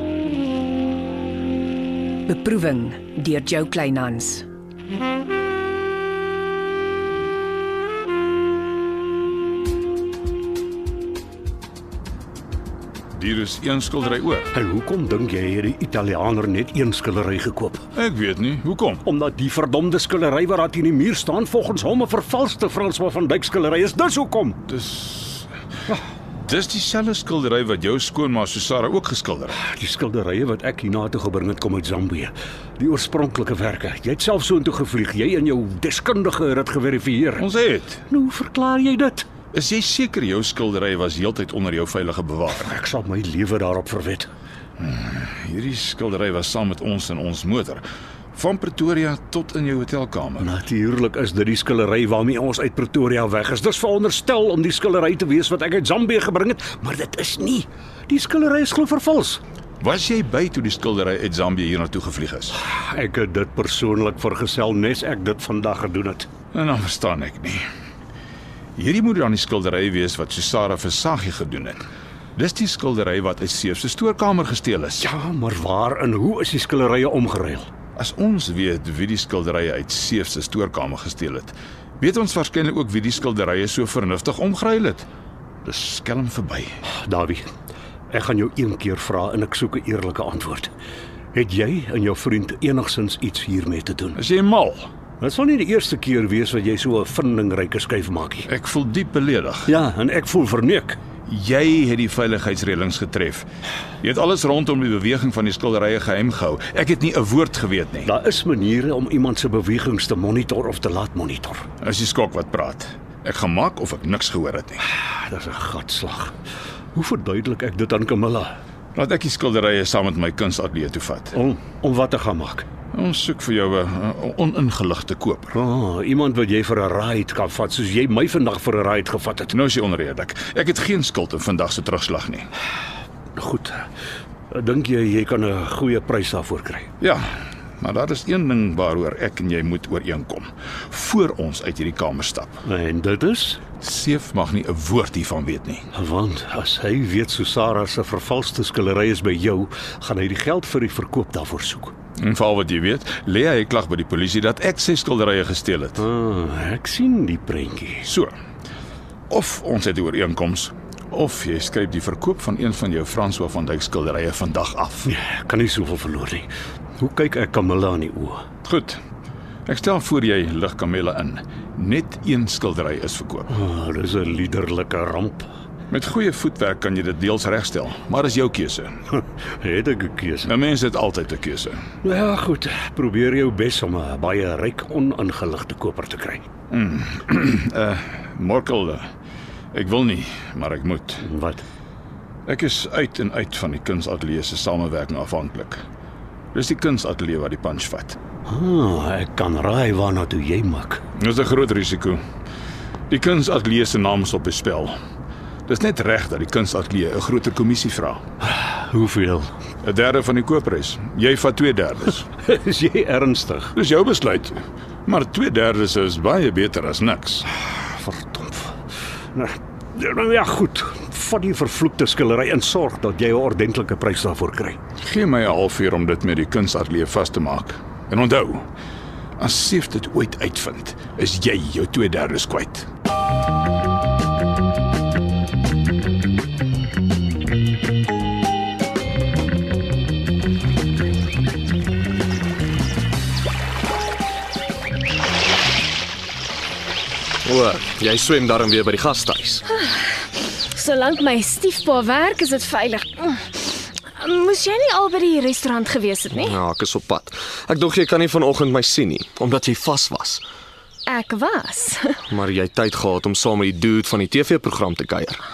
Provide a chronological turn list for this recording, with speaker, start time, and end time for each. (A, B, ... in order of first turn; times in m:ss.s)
0:02.3-0:04.4 A
0:13.2-0:14.5 B
0:14.5-0:17.8 C
0:18.0-0:19.0 B
0:19.0-0:24.6 C
0:24.7-0:25.5 B
0:26.4-0:29.6 B
0:29.6-0:37.5 C
0:37.4-0:38.0 B
0:38.1-0:39.3 C
0:39.5-0:42.7 B
0:42.6-0:44.3 C
0:44.8-0:47.8 B
0:48.3-0:50.5 B
0:50.4-0:59.4 C
0:59.8-1:02.6 B
1:02.7-1:06.3 C
1:06.5-1:07.6 B
1:08.8-1:11.8 B
1:12.4-1:15.0 B
1:15.0-1:17.7 C
1:18.0-1:25.1 B
1:25.6-1:26.8 B
1:27.0-1:27.5 C
1:28.1-1:30.7 C
1:31.3-1:34.2 C
1:34.2-1:34.9 B
1:35.2-1:38.5 C
1:38.5-1:39.7 B
1:39.7-1:41.0 C
1:41.3-1:43.5 B
1:44.0-1:48.1 B
1:48.0-1:51.7 C
1:51.8-1:54.8 B
1:55.0-1:56.4 C
1:56.9-1:58.6 C
1:59.0-2:01.3 B
2:01.3-2:02.6 C
2:02.9-2:05.6 B
2:05.5-2:09.5 C
2:09.5-2:12.5 B
2:13.4-2:13.9 C
2:14.5-2:16.9 C
2:17.0-2:17.3 B
2:17.8-2:22.6 B
2:22.7-2:23.6 C
2:23.8-2:25.9 B
2:26.0-2:31.9 C
2:32.2-2:36.0 B
2:36.0-2:38.1 C
2:38.0-2:38.4 B
2:39.3-2:45.1 B
2:45.1-2:46.5 C
2:47.0-2:48.4 C
2:48.6-2:49.0 B
2:49.7-2:53.5 B
2:53.5-2:55.5 C
2:55.9-2:59.0 B
2:59.6-3:00.5 C
3:00.5-3:01.9 B
3:02.0-3:06.5 C
3:06.7-3:09.0 B
3:09.7-3:11.2 B
3:11.2-3:11.6 C
3:12.5-3:15.8 B
3:16.5-3:18.2 B
3:18.5-3:21.0 C
3:21.2-3:22.2 B
3:23.1-3:25.0 B
3:25.7-3:28.2 B
3:28.4-3:29.5 C
3:29.8-3:32.3 B
3:32.4-3:33.7 C
3:33.8-3:37.4 B
3:37.8-3:38.8 C
3:39.4-3:44.8 C
3:45.0-3:48.7 B
3:49.4-3:52.9 B
4:07.4-4:09.6 D
4:09.7-4:16.6 E
4:16.5-4:20.4 D
4:21.1-4:22.2 E
4:22.3-4:25.4 D